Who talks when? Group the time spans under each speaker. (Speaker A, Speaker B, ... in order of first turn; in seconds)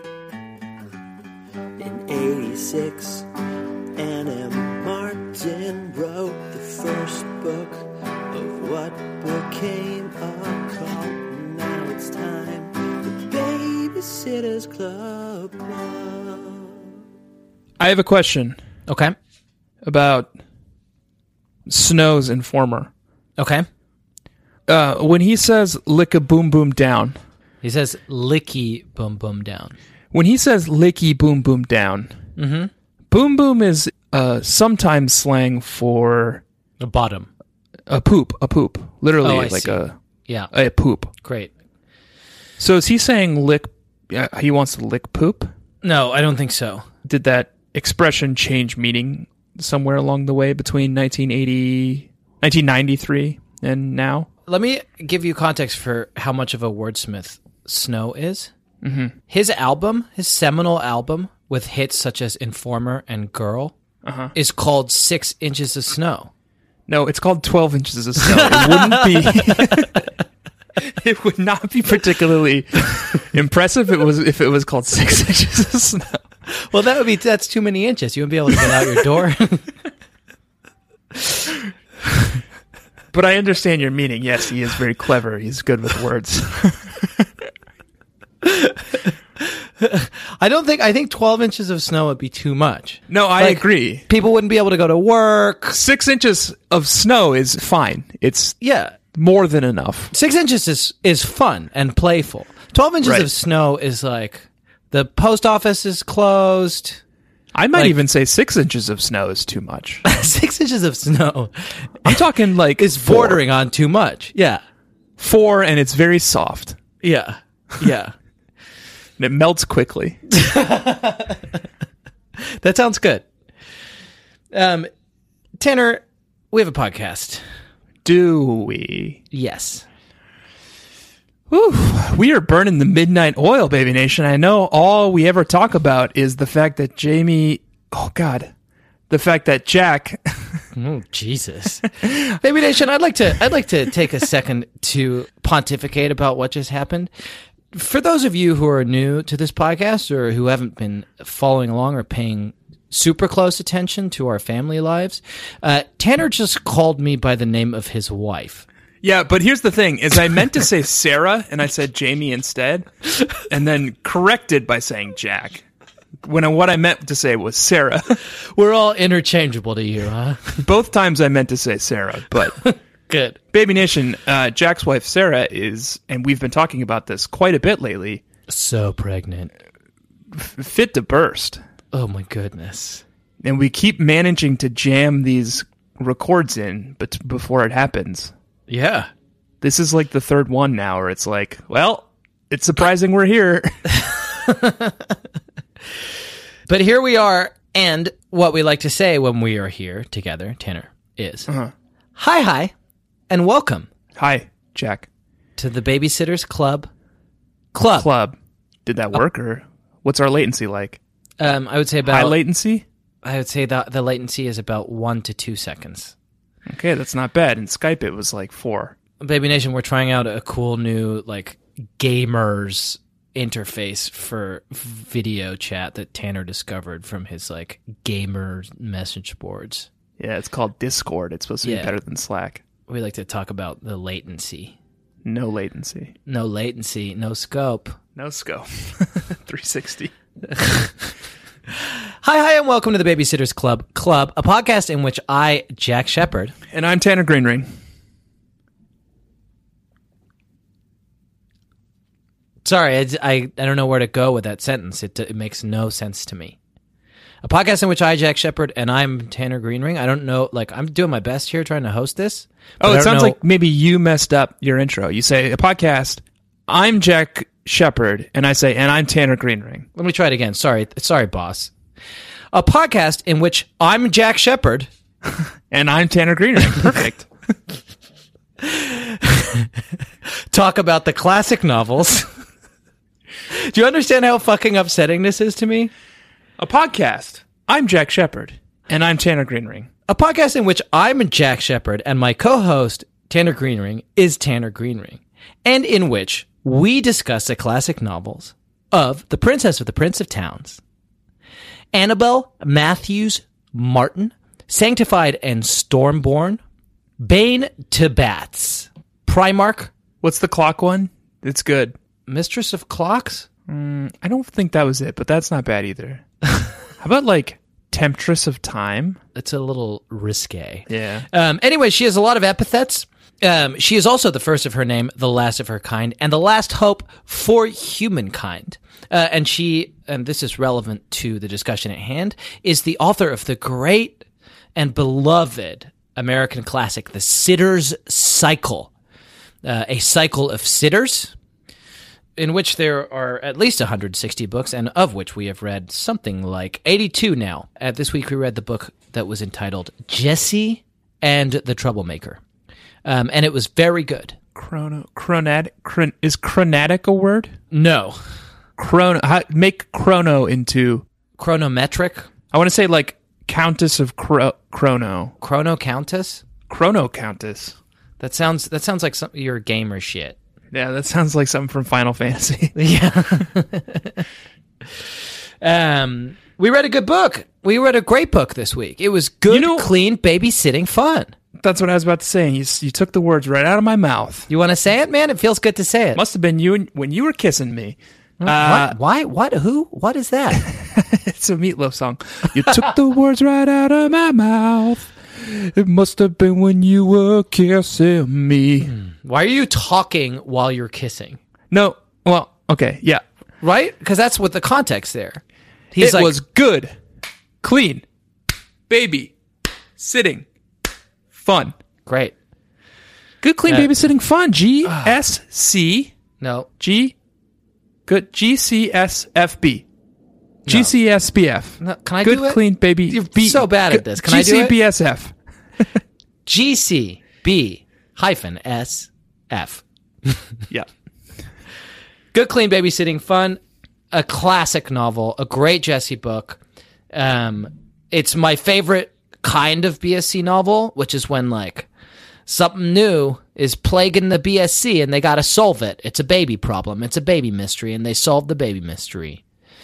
Speaker A: 1.8-3.2, 4.0-7.7, 8.3-16.5
Speaker B: 17.8-18.6, 19.8-20.3, 21.7-22.9, 24.7-27.2, 30.1-32.2, 33.1-36.4, 37.9-40.0, 40.5-41.1, 42.6-45.5, 47.0-54.3, 58.8-59.1, 64.0-64.3, 66.9-70.0, 70.8-76.2, 83.1-87.3, 93.1-94.0, 95.7-98.6, 99.1-100.1, 103.0-103.3, 107.5-110.0, 112.0-113.4, 115.2-116.8, 119.2-120.2, 128.0-129.2, 131.5-138.5, 139.1-140.6, 159.0-165.6, 166.2-168.2, 170.6-172.6, 173.5-178.2, 180.3-181.6, 183.4-188.3, 189.6-194.0, 204.2-205.1, 207.9-211.0, 212.1-212.8, 216.7-219.0, 230.2-232.6, 235.2-236.1, 238.2-240.1, 246.7-247.7, 262.8-269.9, 275.7-277.3, 286.6-289.9, 310.2-311.9, 313.7-316.2, 317.0-319.2, 320.9-321.2, 354.6-357.5, 358.8-361.1, 362.5-365.4, 366.7-367.8, 370.7-372.8, 379.5-379.9, 381.6-384.5, 386.1-389.0, 390.6-398.9, 401.7-403.2, 406.0-406.9, 407.6-408.0, 408.9-409.3, 410.0-410.5, 411.3-411.8, 413.4-416.1, 416.8-417.1, 418.1-419.9, 420.7-425.9
Speaker C: 18.9-19.2, 23.4-23.7, 27.6-29.8, 32.4-32.7, 36.8-37.3, 39.2-40.5, 41.2-41.5, 45.8-46.9, 54.5-58.5, 59.3-63.8, 64.3-66.3, 68.2-70.0, 76.5-79.7, 88.4-95.8, 98.6-99.0, 100.1-107.0, 110.0-112.2, 112.8-114.6, 117.0-118.1, 120.3-121.6, 122.4-123.2, 124.5-124.9, 125.6-127.4, 129.3-129.9, 140.7-147.1, 147.7-158.7, 168.4-170.7, 172.6-173.4, 178.5-179.5, 181.9-183.0, 188.7-189.1, 194.3-195.2, 196.7-201.5, 202.2-202.7, 203.3-203.9, 205.6-206.9, 207.7-208.1, 211.4-212.4, 213.2-216.1, 219.2-229.9, 231.6-231.9, 232.9-234.8, 236.3-238.0, 240.5-240.9, 241.8-246.6, 252.6-256.6, 257.4-263.4, 269.9-271.7, 272.5-274.9, 278.6-279.7, 280.5-282.3, 283.5-285.9, 290.1-300.8, 301.9-306.6, 307.2-309.9, 312.3-313.5, 319.4-334.2, 334.8-338.9, 339.6-341.3, 342.4-352.4, 353.1-354.4, 357.7-358.2, 361.4-362.3, 365.4-366.4, 368.2-370.4, 372.8-374.2, 375.6-381.3, 384.5-386.2, 388.4-390.7, 398.8-401.4, 403.6-405.4, 405.9-406.4, 412.1-412.3, 414.9-415.1, 416.4-416.7, 420.7-420.9, 421.8-424.8, 426.5-430.4, 432.3-433.6, 434.1-436.6, 437.1-441.9, 442.5-449.4